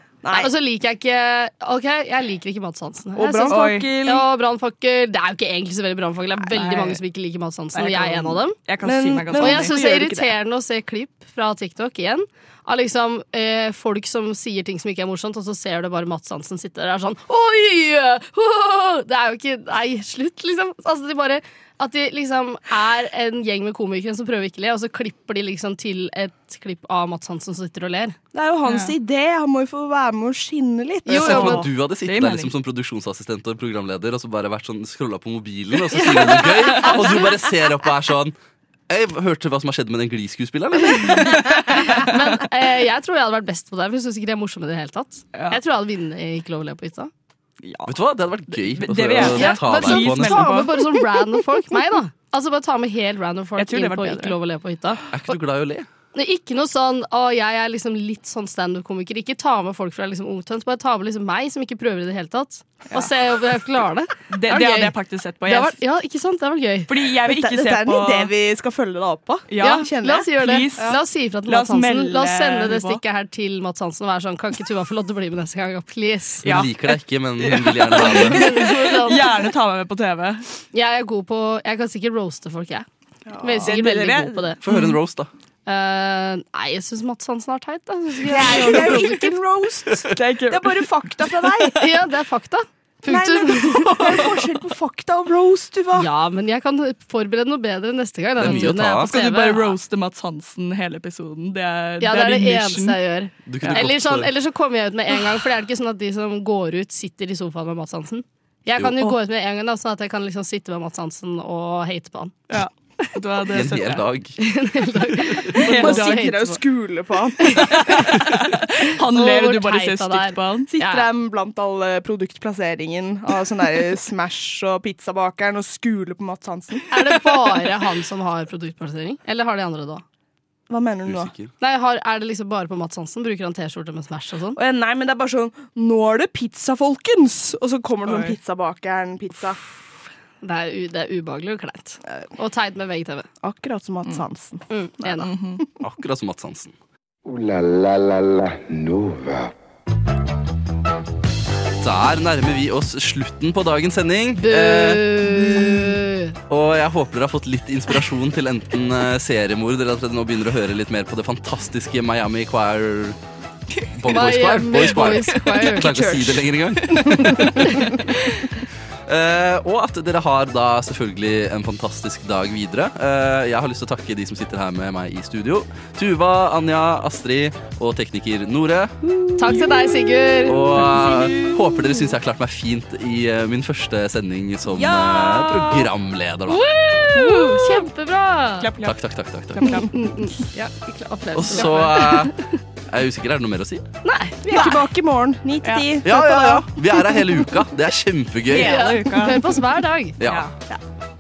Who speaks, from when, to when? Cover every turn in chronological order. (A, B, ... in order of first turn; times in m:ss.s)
0:00.2-0:00.5 A
0:00.3-0:08.6 B
0:03.2-0:04.2 A
0:03.5-0:04.0 C
0:06.5-0:07.0 C
0:07.8-0:09.7 C
0:08.8-0:10.3 A
0:09.4-0:28.2 B
0:28.3-0:31.6 A
0:28.7-0:29.0 C
0:31.1-0:31.6 B
0:31.1-0:38.4 D
0:31.2-0:32.5 C
0:36.0-0:37.3 B
0:38.9-0:41.7 D
0:41.0-0:47.1 B
0:45.3-0:45.6 C
0:47.6-0:50.8 C
0:47.9-0:50.7 D
0:49.2-0:55.0 B
0:53.6-0:54.4 C
0:55.1-0:55.9 D
0:56.1-1:06.9 B
1:04.3-1:05.8 C
1:06.9-1:08.3 C
1:07.2-1:10.9 A
1:09.5-1:13.0 C
1:09.6-1:16.6 B
1:16.4-1:20.5 C
1:16.4-1:18.7 D
1:18.0-1:19.3 B
1:20.7-1:22.9 B
1:23.3-1:23.8 A
1:23.4-1:24.6 B
1:23.6-1:25.0 C
1:24.6-1:25.3 D
1:25.7-1:29.3 B
1:28.3-1:31.8 A
1:28.3-1:29.0 C
1:30.1-1:31.8 C
1:31.8-1:34.3 B
1:33.0-1:36.1 A
1:34.0-1:34.4 C
1:35.9-1:39.8 B
1:38.4-1:39.1 D
1:38.4-1:43.0 C
1:42.0-1:52.6 B
1:43.5-1:44.3 D
1:52.5-1:54.1 C
1:53.5-1:54.4 D
1:54.4-1:56.6 B
1:55.5-1:56.3 C
1:55.6-1:58.0 A
1:57.5-1:58.2 B
1:57.6-2:00.7 C
1:58.8-2:01.1 B
2:00.7-2:06.9 A
2:06.9-2:10.0 B
2:10.7-2:11.3 A
2:11.1-2:11.5 D
2:11.6-2:14.6 B
2:14.6-2:19.6 A
2:18.0-2:18.4 C
2:20.4-2:23.3 B
2:23.4-2:25.6 A
2:24.7-2:25.3 B
2:25.2-2:25.6 C
2:25.8-2:26.7 D
2:27.2-2:29.5 E
2:31.8-2:35.0 D
2:34.4-2:36.4 B
2:36.5-2:43.2 D
2:44.0-2:48.2 D
2:44.1-2:46.3 B
2:44.8-2:48.4 C
2:49.1-2:59.0 D
2:59.4-3:00.8 B
2:59.5-2:59.8 C
3:00.4-3:06.6 D
3:00.7-3:01.9 C
3:04.7-3:05.9 C
3:06.5-3:08.7 B
3:07.2-3:07.8 C
3:08.6-3:09.0 C
3:08.8-3:09.7 D
3:09.5-3:09.9 C
3:09.9-3:12.3 B
3:11.4-3:12.4 D
3:11.5-3:11.9 C
3:12.9-3:13.8 D
3:14.0-3:14.8 B
3:14.4-3:17.3 A
3:15.6-3:15.9 C
3:16.0-3:18.9 D
3:18.5-3:19.5 C
3:18.5-3:20.2 B
3:20.2-3:20.5 D
3:20.2-3:20.5 C